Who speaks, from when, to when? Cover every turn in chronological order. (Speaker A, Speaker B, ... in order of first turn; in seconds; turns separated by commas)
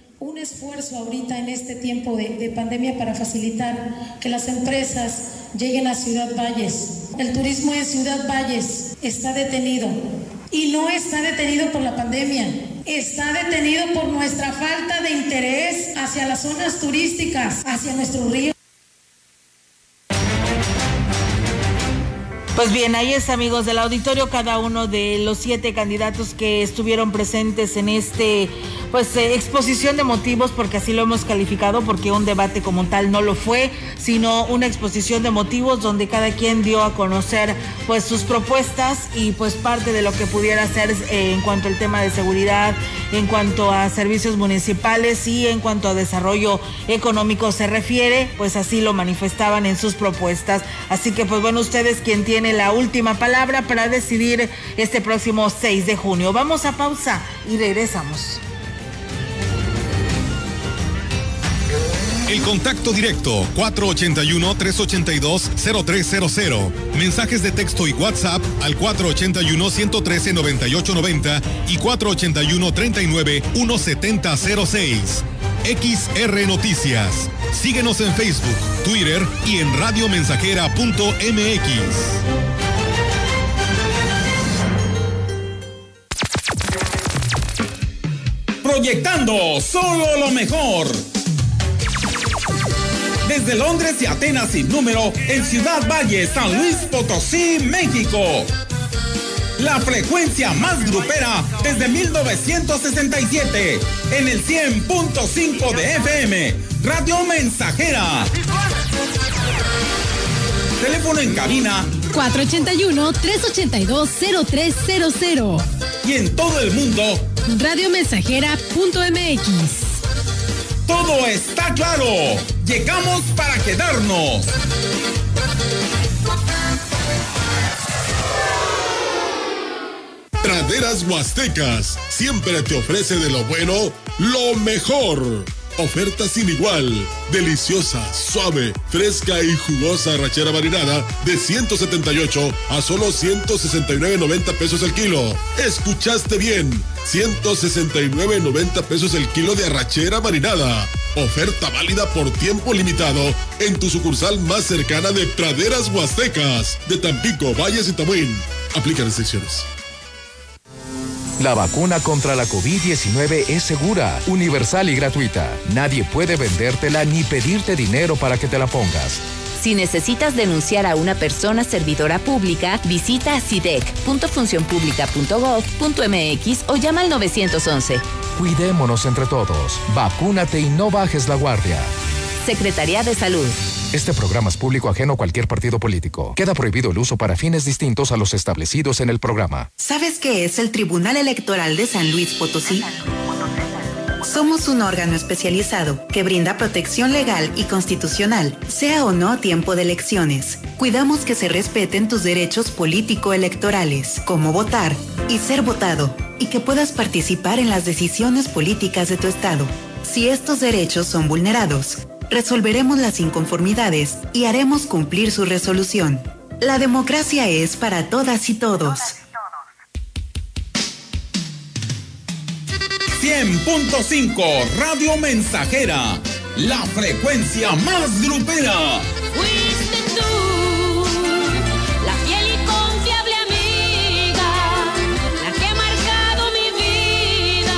Speaker A: 0.2-10.0, Speaker A: 10.5-18.5, Speaker B: 22.5-58.4, Speaker C: 62.3-82.2, Speaker D: 88.6-91.0, Speaker D: 93.2-98.5, Speaker D: 99.6-108.3, Speaker D: 110.8-112.0, Speaker E: 112.1-115.6, Speaker D: 116.0-117.3, Speaker E: 117.5-119.9, Speaker D: 120.9-124.5, Speaker F: 130.4-159.7, Speaker G: 161.4-169.2, Speaker H: 169.6-178.0, Speaker G: 178.4-181.9, Speaker H: 182.4-183.6, Speaker G: 183.9-189.7, Speaker I: 189.8-193.6, Speaker I: 194.2-219.2, Speaker D: 223.1-229.1